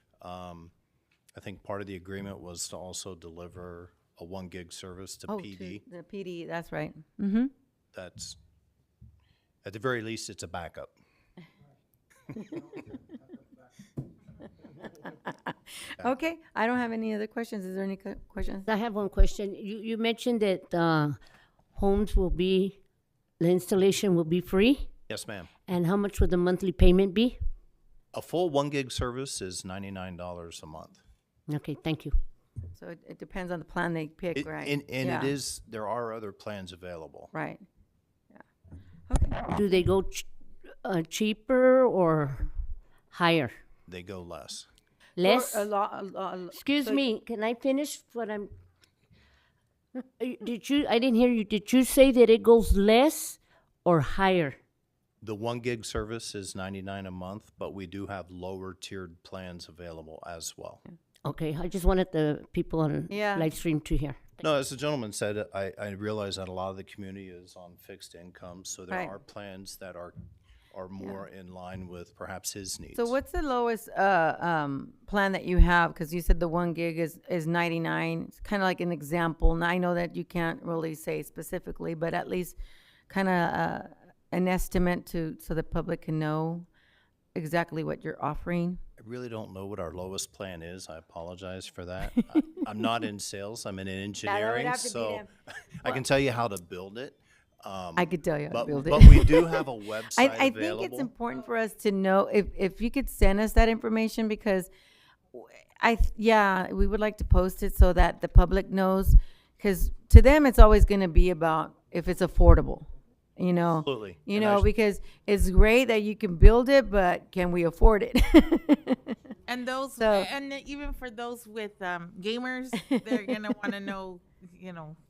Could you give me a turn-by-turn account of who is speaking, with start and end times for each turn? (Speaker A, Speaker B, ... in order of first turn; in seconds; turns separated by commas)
Speaker A: 0.2-0.7, Speaker A: 1.3-5.8, Speaker B: 5.3-7.5, Speaker A: 7.9-8.4, Speaker A: 9.6-10.9, Speaker B: 15.0-18.6, Speaker C: 18.7-21.2, Speaker C: 21.8-22.8, Speaker C: 23.4-24.9, Speaker A: 25.1-25.5, Speaker C: 25.7-27.4, Speaker A: 28.1-31.0, Speaker C: 31.5-32.1, Speaker B: 32.7-35.3, Speaker A: 34.3-37.3, Speaker B: 37.3-37.6, Speaker B: 39.1-39.8, Speaker C: 39.5-40.2, Speaker C: 40.8-42.5, Speaker C: 43.1-43.5, Speaker A: 43.9-44.7, Speaker C: 45.2-45.7, Speaker B: 45.2-47.0, Speaker C: 46.5-48.5, Speaker C: 49.9-54.6, Speaker A: 55.2-60.8, Speaker C: 61.2-64.4, Speaker B: 63.1-63.5, Speaker A: 64.4-70.1, Speaker B: 68.9-69.2, Speaker A: 70.7-73.1, Speaker B: 72.9-82.6, Speaker B: 83.1-86.7, Speaker B: 87.3-88.8, Speaker A: 89.0-95.2, Speaker B: 94.2-95.3, Speaker A: 95.8-101.1, Speaker B: 98.0-104.7, Speaker B: 105.3-119.2, Speaker A: 113.8-114.7, Speaker D: 119.5-125.0, Speaker B: 120.0-120.3, Speaker B: 122.8-123.4